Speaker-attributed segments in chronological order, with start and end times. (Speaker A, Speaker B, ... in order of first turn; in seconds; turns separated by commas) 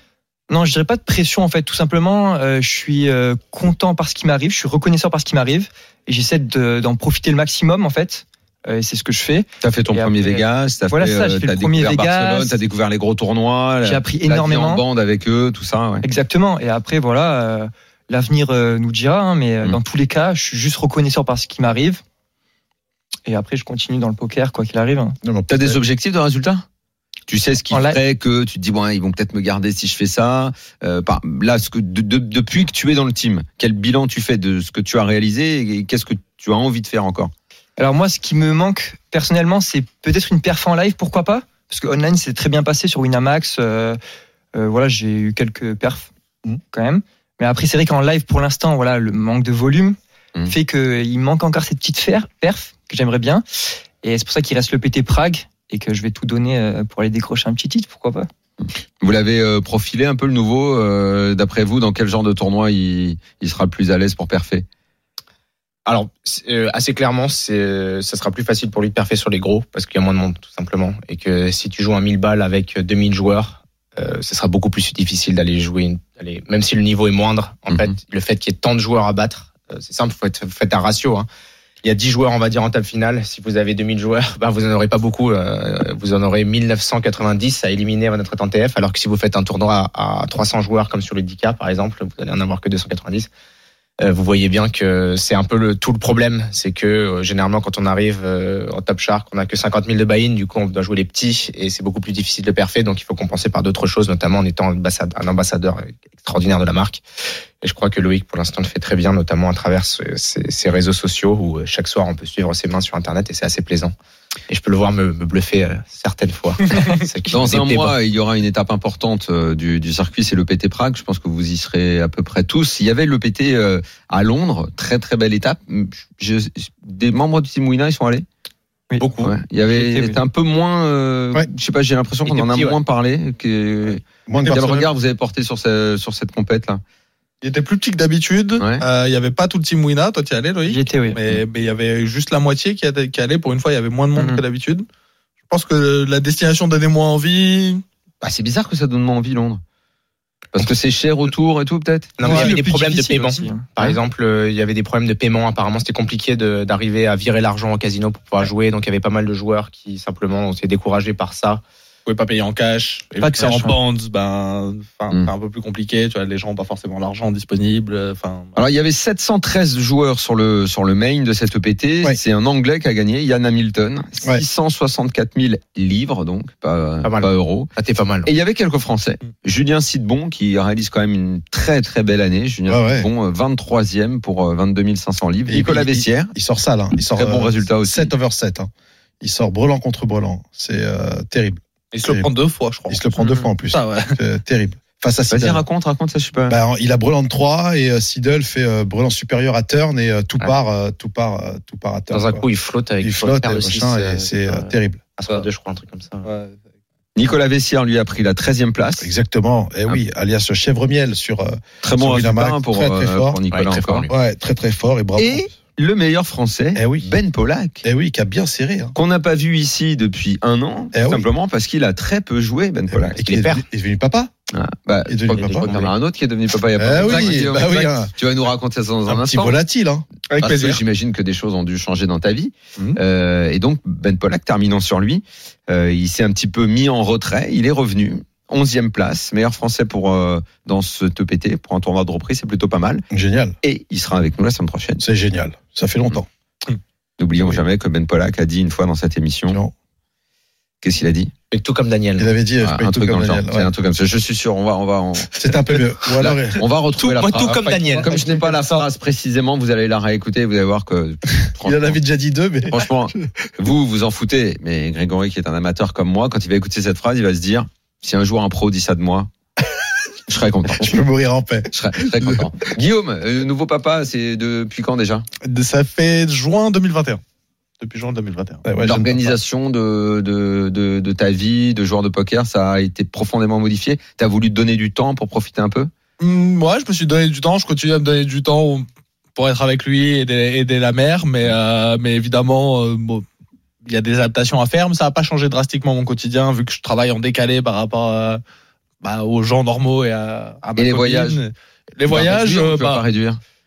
Speaker A: 0.5-12.6, Speaker B: 9.6-16.1, Speaker A: 13.8-14.8, Speaker A: 16.0-22.0, Speaker A: 23.2-25.2, Speaker C: 25.2-25.8, Speaker B: 25.5-26.6, Speaker B: 27.3-37.3, Speaker A: 27.7-28.0, Speaker A: 37.8-44.0, Speaker A: 44.5-46.1, Speaker A: 46.7-58.3, Speaker B: 58.6-64.7, Speaker D: 65.8-81.3, Speaker D: 81.8-93.3, Speaker D: 94.0-107.0, Speaker D: 107.6-113.9, Speaker D: 114.5-118.0, Speaker B: 117.3-128.2, Speaker A: 128.9-129.1, Speaker D: 129.0-129.3, Speaker B: 129.2-136.8, Speaker A: 129.7-130.2, Speaker D: 132.2-132.8, Speaker C: 134.2-134.9, Speaker E: 137.4-144.8, Speaker B: 138.6-138.8, Speaker A: 140.7-141.2, Speaker A: 144.2-144.4, Speaker E: 145.5-147.8, Speaker B: 148.2-149.6, Speaker B: 150.5-152.4, Speaker D: 152.2-161.6, Speaker A: 152.2-153.9, Speaker E: 162.1-168.5, Speaker A: 163.2-163.8, Speaker B: 168.6-177.7, Speaker D: 177.0-178.3, Speaker B: 178.2-186.3, Speaker C: 182.7-183.1, Speaker C: 185.5-188.7, Speaker B: 187.1-188.1, Speaker C: 189.2-192.3, Speaker E: 191.9-194.2, Speaker C: 192.9-195.6, Speaker B: 195.3-196.6, Speaker C: 196.5-202.4, Speaker D: 202.1-206.3, Speaker C: 203.0-205.0, Speaker E: 206.2-206.6, Speaker B: 207.1-209.1, Speaker C: 209.0-213.4, Speaker B: 211.8-214.1, Speaker D: 213.5-214.1, Speaker C: 214.1-215.5, Speaker B: 215.2-217.8, Speaker C: 216.7-217.1, Speaker C: 217.8-218.9, Speaker B: 218.9-223.2, Speaker C: 220.9-221.3, Speaker C: 222.9-224.3, Speaker D: 223.2-223.6, Speaker B: 224.5-229.6, Speaker C: 225.1-225.8, Speaker D: 225.3-225.9, Speaker C: 226.8-228.1, Speaker C: 229.1-230.1, Speaker E: 230.3-230.8, Speaker B: 230.4-243.0, Speaker C: 243.1-243.6, Speaker B: 243.6-245.0, Speaker C: 245.0-246.2, Speaker B: 247.2-249.6, Speaker C: 247.4-247.6, Speaker C: 249.5-249.7, Speaker B: 250.8-251.3, Speaker D: 251.5-252.3, Speaker C: 252.2-253.7, Speaker B: 252.6-262.0, Speaker C: 255.3-256.6, Speaker D: 257.0-258.1, Speaker E: 257.5-258.6, Speaker C: 261.5-263.5, Speaker B: 262.7-269.3, Speaker B: 270.3-271.0, Speaker C: 270.7-272.5, Speaker B: 271.7-275.2, Speaker E: 275.4-277.2, Speaker E: 277.8-278.6, Speaker C: 278.6-279.4, Speaker B: 278.8-285.9, Speaker E: 286.2-293.2, Speaker E: 293.8-298.4, Speaker E: 299.0-303.0, Speaker B: 300.8-301.4, Speaker B: 302.1-303.4